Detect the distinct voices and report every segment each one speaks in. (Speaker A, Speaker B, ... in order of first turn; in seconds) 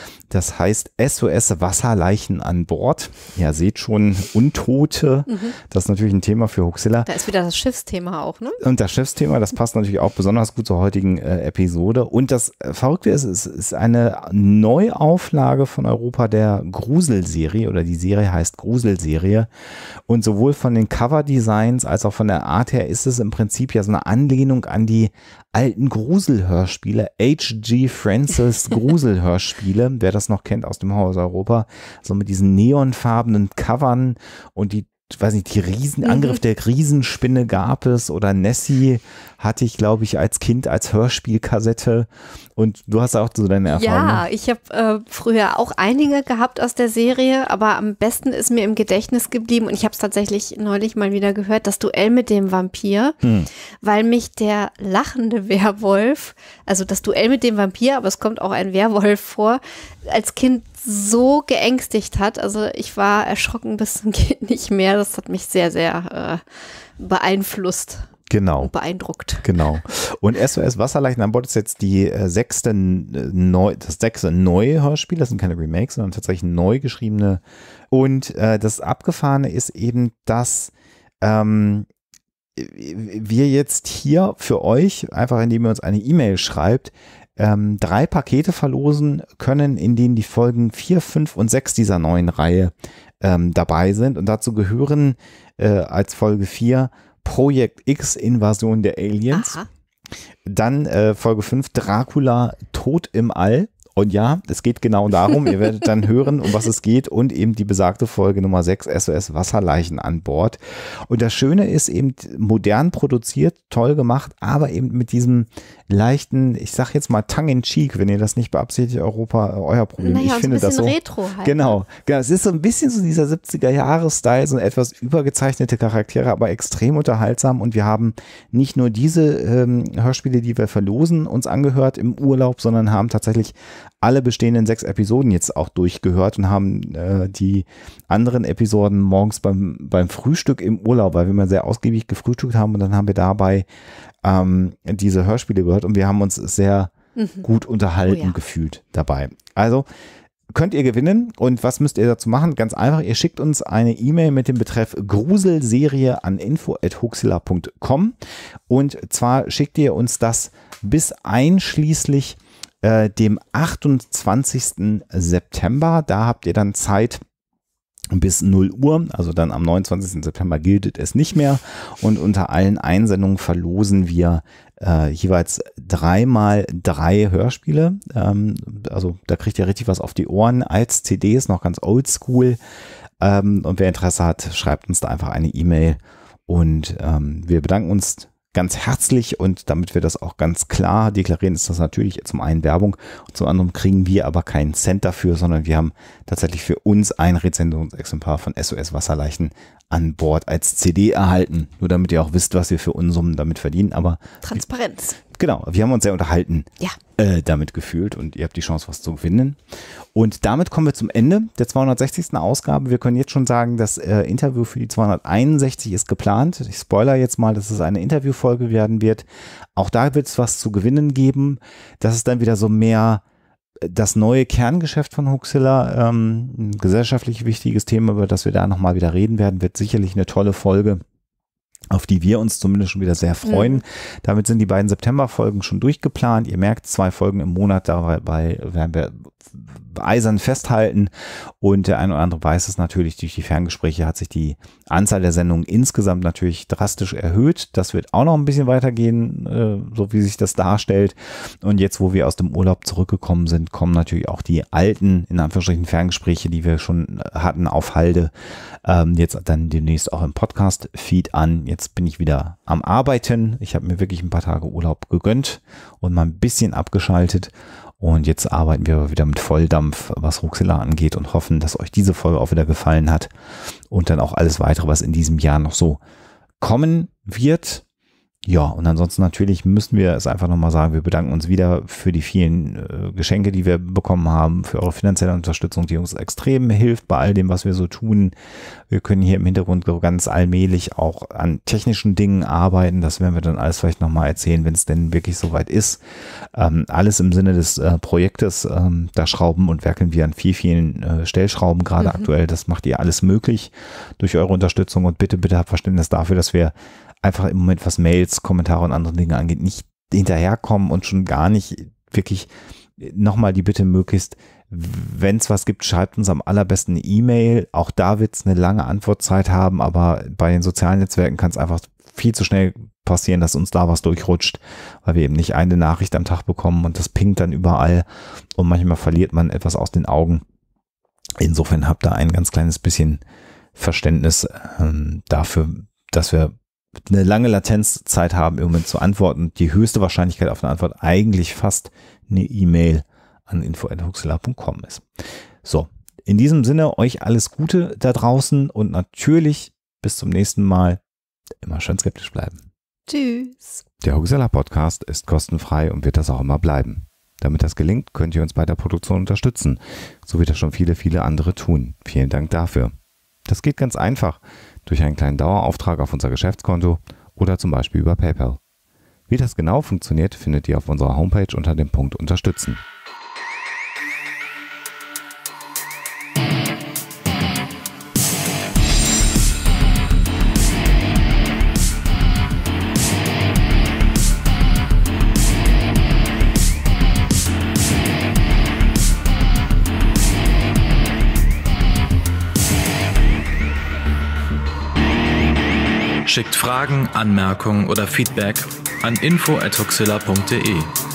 Speaker A: 0.3-7.1, 8.6-19.5, 20.1-44.2, 53.2-53.5, 68.3-68.7, 69.4-81.9, 82.5-99.6, 100.4-143.7, 144.2-149.9, 150.5-158.2, 158.7-167.2, 168.1-182.6, 183.2-204.7, 205.3-209.6, 210.1-223.2, 223.8-231.0, 231.9-258.3, 258.8-273.3, 273.9-276.0, 276.6-277.8, 278.4-288.3, 288.9-296.0, 296.5-330.4, 331.4-333.2, 333.8-345.1, 345.6-351.0, 351.6-352.6, 354.0-362.9, 363.4-368.6, 369.3-372.8
Speaker B: 5.3-5.5, 7.0-8.6, 36.0-36.3, 43.7-53.2, 53.8-66.4, 67.0-69.5, 99.3-99.7, 120.0-121.7, 147.2-147.4, 148.1-148.3, 204.4-205.2, 233.4-233.8, 302.0-302.3, 353.1-353.8
Speaker C: 396.2-400.9